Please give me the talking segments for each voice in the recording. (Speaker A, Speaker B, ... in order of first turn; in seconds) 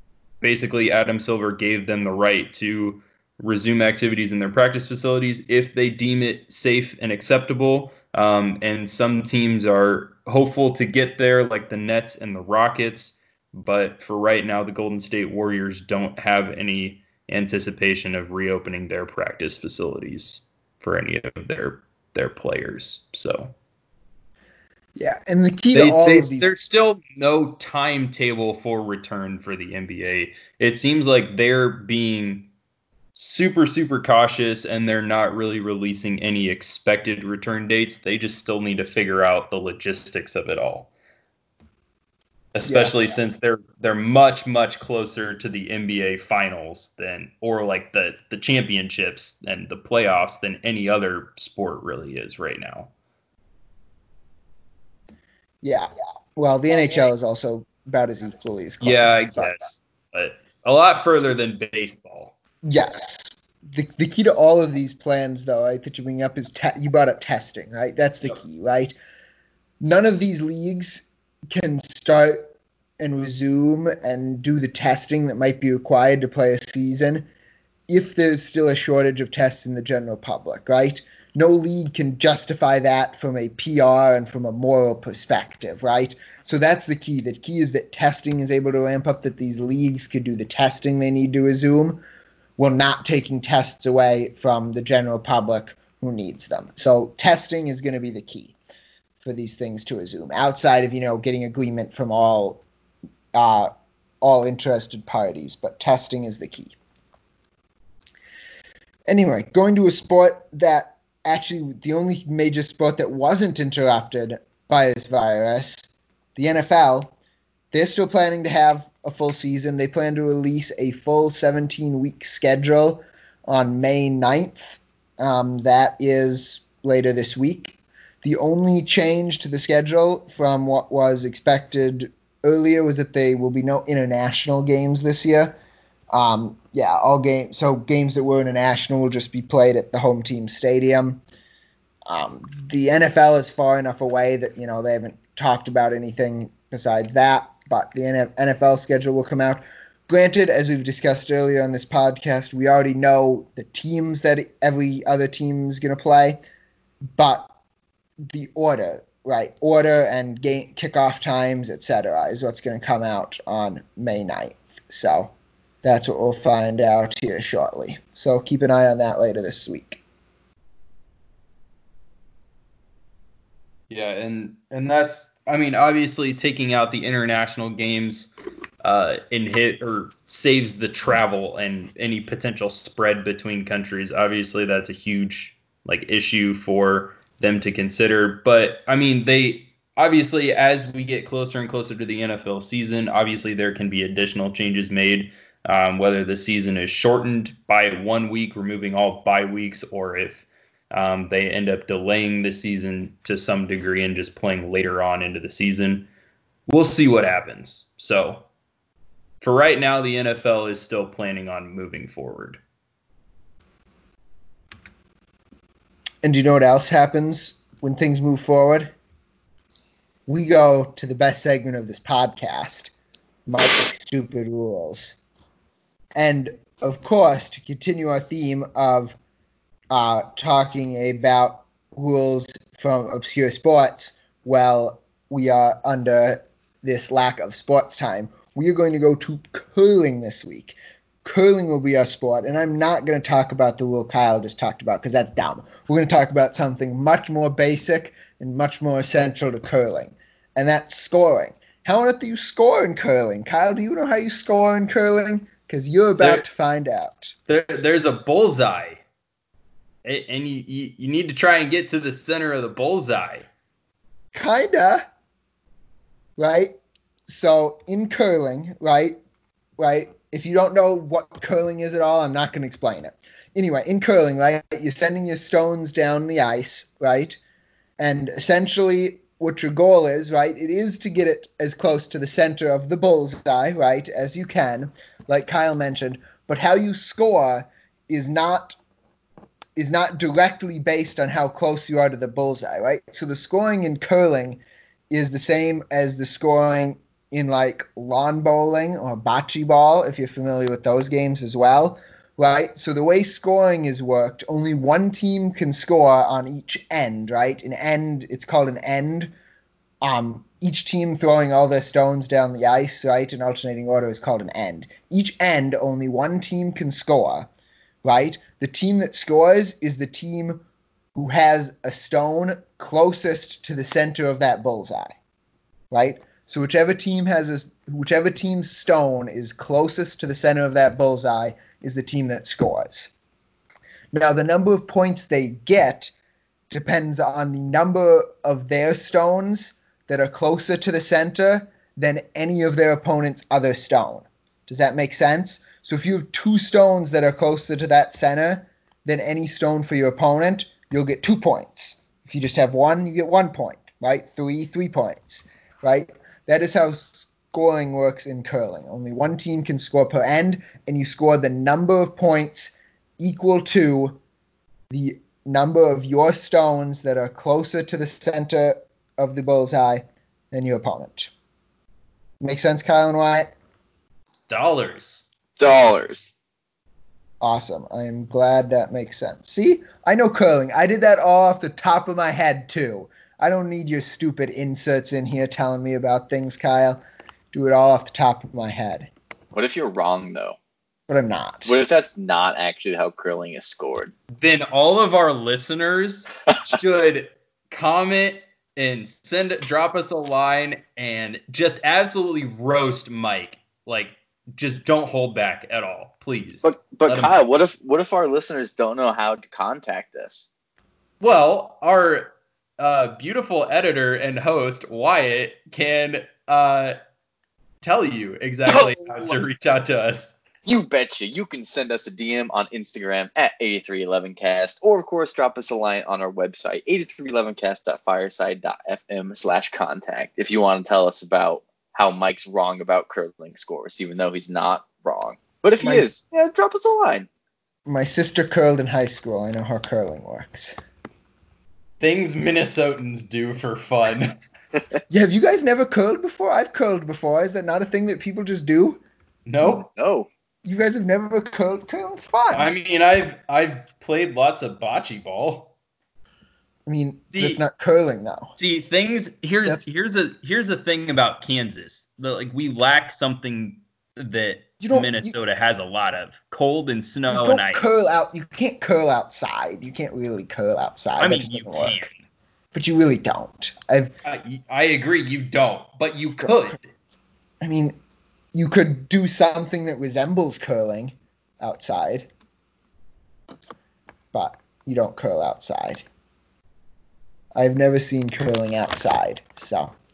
Speaker A: 0.4-23.5, 25.7-32.5, 33.1-40.9, 42.5-52.9, 58.8-62.4, 173.9-206.1, 206.7-208.5, 209.4-212.6, 256.2-256.5, 257.5-259.0, 260.0-263.5, 374.5-375.9, 394.4-407.5, 411.2-417.0, 417.8-420.4, 442.0-444.4, 449.5-449.9, 452.5-455.7, 457.3-457.6, 458.6-467.9, 471.2-472.2, 474.2-476.9
Speaker B: 24.9-26.6, 42.6-43.2, 55.6-59.6, 62.6-69.0, 69.8-77.3, 77.9-92.0, 92.6-98.6, 99.2-102.6, 103.3-106.8, 109.1-117.1, 117.7-135.6, 136.1-141.2, 142.1-156.4, 157.2-157.5, 158.3-170.0, 216.2-218.9, 220.3-222.9, 223.5-225.2, 226.2-229.2, 229.9-257.4, 264.3-265.0, 266.4-269.2, 269.8-277.4, 278.0-288.8, 289.8-309.3, 310.0-317.5, 318.0-320.6, 321.1-325.1, 325.9-333.1, 334.1-336.1, 336.7-364.2, 364.9-371.3, 372.4-373.5, 377.4-387.0, 387.5-389.1, 391.1-391.7, 435.8-436.1, 437.9-440.8, 445.1-449.0, 450.6-452.7, 456.9-458.6, 464.8-465.4, 467.3-472.1, 472.7-474.1, 476.4-476.7, 477.6-478.0, 478.5-482.3, 484.3-486.1, 487.6-489.9
Speaker C: 375.6-376.4, 389.5-390.6, 391.7-394.1, 406.6-410.5, 420.6-437.3, 449.6-450.3